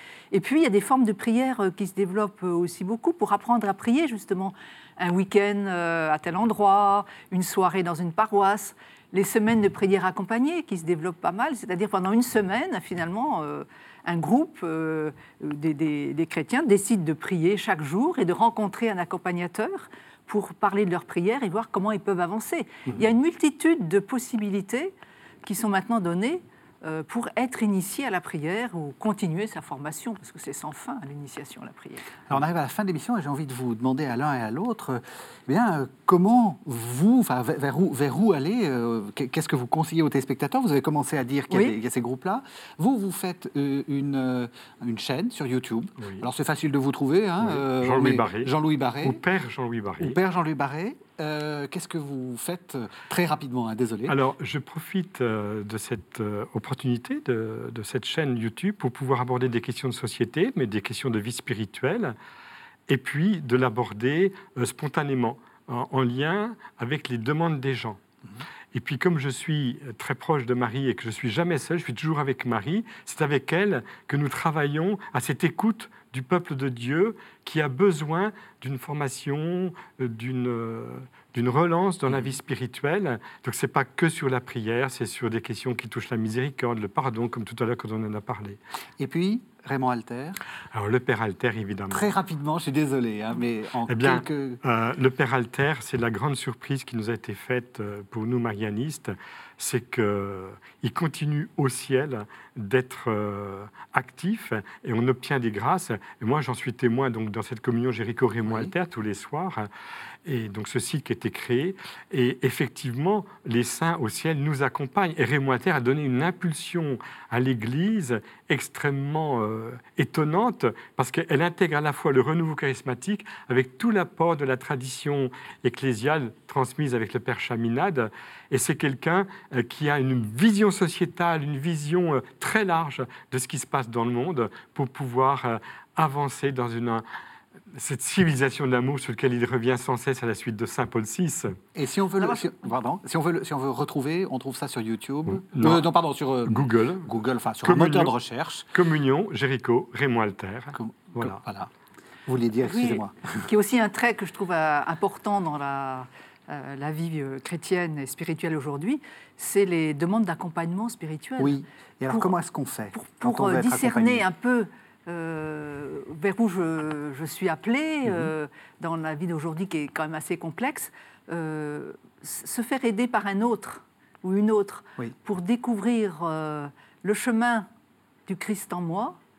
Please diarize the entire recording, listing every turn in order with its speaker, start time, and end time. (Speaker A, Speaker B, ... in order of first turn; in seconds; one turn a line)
Speaker A: 0.3-32.2
Speaker B: 32.3-49.2
Speaker A: 41.5-41.8
Speaker C: 46.0-46.2
Speaker C: 47.4-50.2
Speaker B: 50.0-54.1
Speaker C: 54.1-62.1
Speaker C: 62.9-68.0
Speaker C: 68.7-88.6
Speaker B: 89.0-90.4
Speaker C: 90.7-92.1
Speaker B: 91.9-94.6
Speaker C: 93.9-109.7
Speaker B: 108.5-108.7
Speaker C: 110.2-137.0
Speaker C: 137.7-141.6
Speaker B: 141.7-148.7
Speaker C: 145.3-145.8
Speaker C: 146.4-147.1
Speaker C: 147.6-148.1
Speaker C: 148.7-151.4
Speaker B: 150.7-151.7
Speaker B: 152.2-153.4
Speaker A: 152.6-162.3
Speaker B: 161.4-164.2
Speaker A: 162.9-177.7
Speaker B: 168.1-168.3
Speaker A: 178.3-179.2